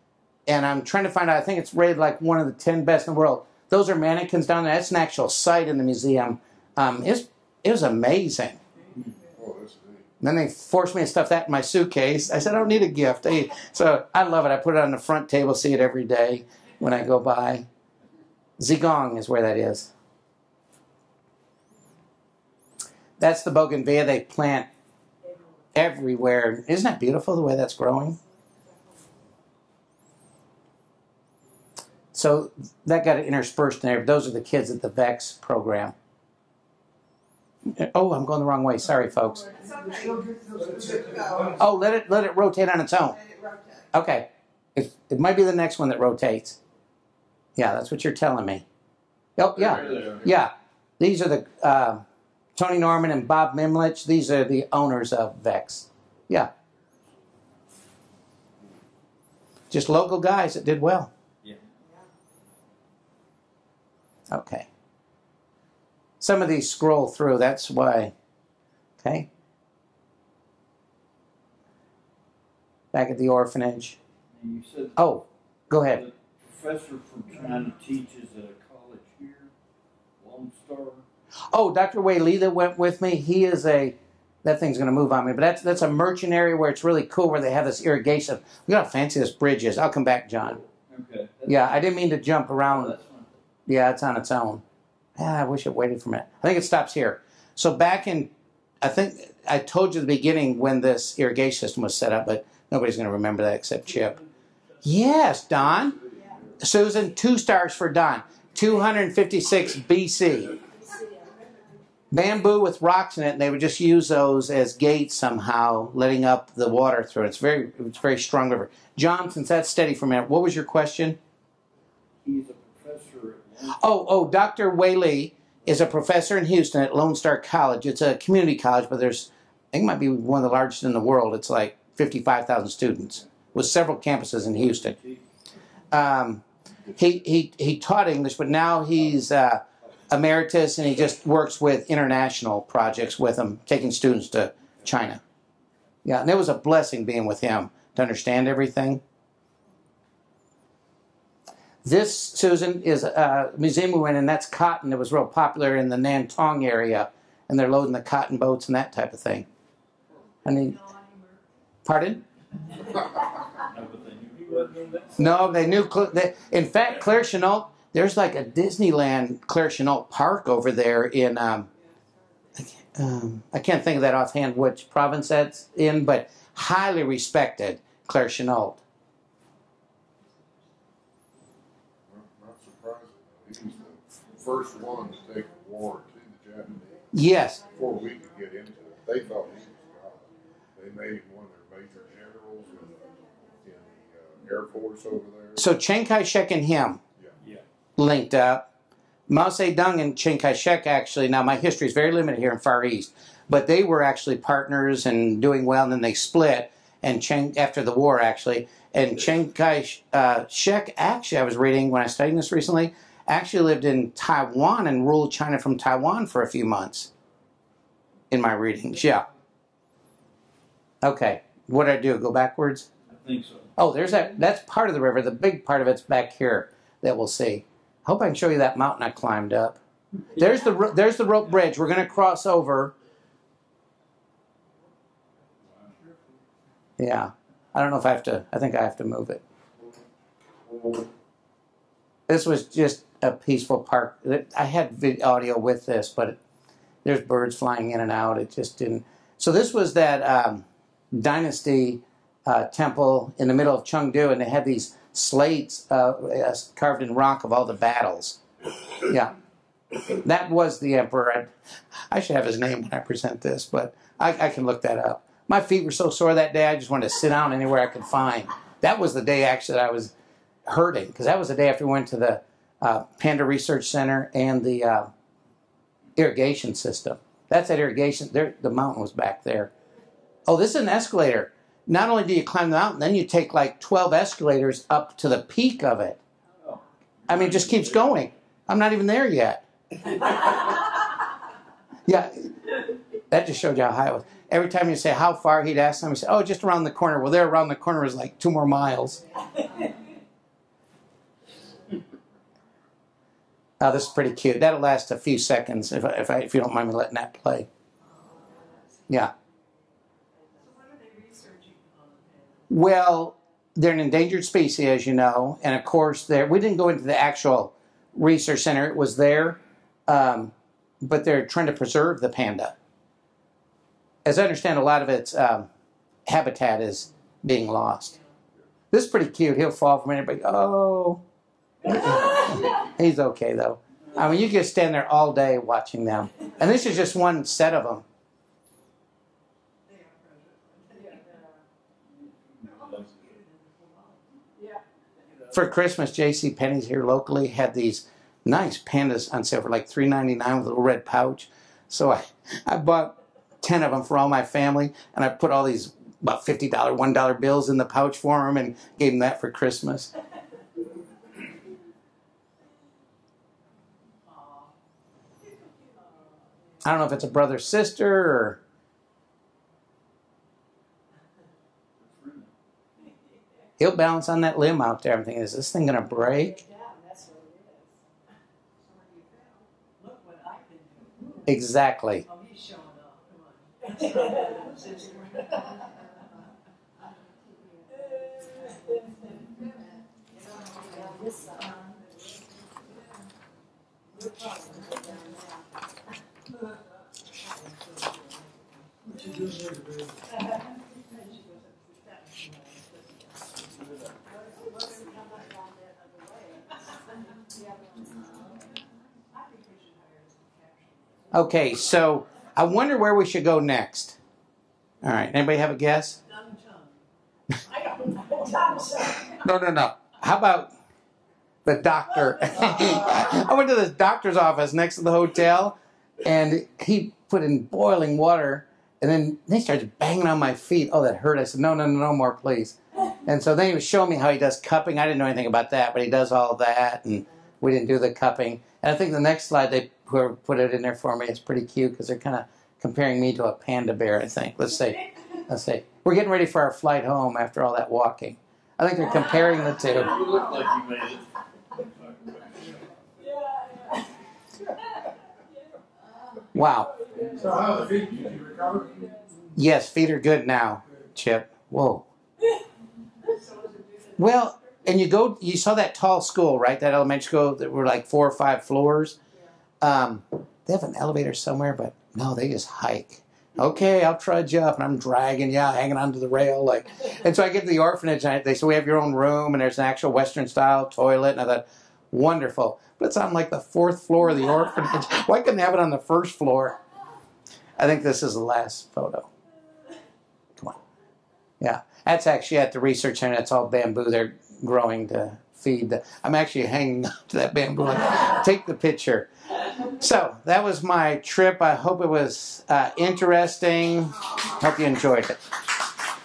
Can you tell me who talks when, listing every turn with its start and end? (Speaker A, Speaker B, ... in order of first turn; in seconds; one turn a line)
Speaker A: 0.5-8.6
Speaker B: 9.3-10.1
Speaker A: 10.2-17.7
Speaker A: 18.6-19.9
Speaker A: 23.2-24.7
Speaker A: 25.7-28.2
Speaker A: 32.1-35.9
Speaker A: 37.7-39.4
Speaker C: 39.4-41.7
Speaker D: 39.5-41.6
Speaker A: 41.6-43.1
Speaker D: 43.0-43.9
Speaker A: 43.9-46.6
Speaker A: 47.5-48.6
Speaker A: 49.4-52.0
Speaker E: 49.6-50.2
Speaker B: 49.6-50.2
Speaker A: 52.5-56.5
Speaker A: 59.7-61.1
Speaker A: 64.3-64.7
Speaker A: 66.2-68.1
Speaker A: 69.0-69.3
Speaker A: 72.9-74.0
Speaker E: 74.3-75.2
Speaker A: 75.0-76.0
Speaker E: 75.8-79.5
Speaker E: 80.2-81.0
Speaker A: 81.5-90.6
Speaker E: 90.9-91.8
Speaker A: 91.5-92.9
Speaker E: 92.6-93.2
Speaker A: 93.7-94.6
Speaker A: 95.2-98.3
Speaker A: 98.8-104.2
Speaker A: 104.8-106.0
Speaker B: 105.6-106.5
Speaker A: 106.6-110.6
Speaker D: 110.9-111.3
Speaker A: 112.1-121.2
Speaker E: 122.2-123.8
Speaker A: 123.8-134.9
Speaker E: 134.5-135.2
Speaker A: 135.9-136.4
Speaker A: 137.0-145.2
Speaker A: 146.0-149.0
Speaker A: 151.8-159.4
Speaker A: 160.4-160.8
Speaker A: 161.8-162.2
Speaker E: 163.6-165.5
Speaker A: 165.2-171.7
Speaker A: 172.6-178.8
Speaker B: 182.1-187.1
Speaker A: 187.1-187.6
Speaker B: 187.7-192.9
Speaker B: 193.6-195.7
Speaker A: 195.6-197.0
Speaker A: 198.0-198.7
Speaker A: 199.3-217.1
Speaker A: 218.3-219.3
Speaker A: 221.0-222.9
Speaker E: 223.1-223.7
Speaker A: 223.8-229.8
Speaker A: 230.3-232.9
Speaker E: 235.7-236.1
Speaker A: 237.0-239.4
Speaker A: 242.3-246.3
Speaker A: 247.0-258.4
Speaker A: 259.0-259.3
Speaker A: 260.1-261.5
Speaker A: 262.1-270.1
Speaker A: 270.7-275.1
Speaker A: 276.1-279.7
Speaker A: 280.4-286.2
Speaker E: 286.6-288.2
Speaker A: 287.3-289.6
Speaker A: 292.1-292.5
Speaker A: 293.3-299.2
Speaker A: 303.8-307.7
Speaker A: 312.7-322.7
Speaker A: 324.2-325.7
Speaker A: 326.3-328.1
Speaker A: 328.9-331.2
Speaker A: 331.9-338.0
Speaker E: 342.6-343.3
Speaker A: 345.5-360.1
Speaker A: 366.8-368.6
Speaker E: 372.0-372.5
Speaker A: 373.8-376.6
Speaker A: 381.4-382.2
Speaker D: 387.0-388.7
Speaker D: 390.8-391.7
Speaker D: 394.7-395.5
Speaker C: 399.0-400.3
Speaker D: 405.9-406.5
Speaker A: 411.3-414.2
Speaker A: 415.0-416.2
Speaker A: 419.4-420.7
Speaker A: 421.6-450.2
Speaker E: 449.9-452.5
Speaker A: 456.5-456.9
Speaker C: 457.1-459.2
Speaker A: 459.6-462.0
Speaker A: 464.2-469.1
Speaker A: 469.8-486.8
Speaker A: 487.8-489.3
Speaker A: 491.6-499.3
Speaker A: 500.0-505.3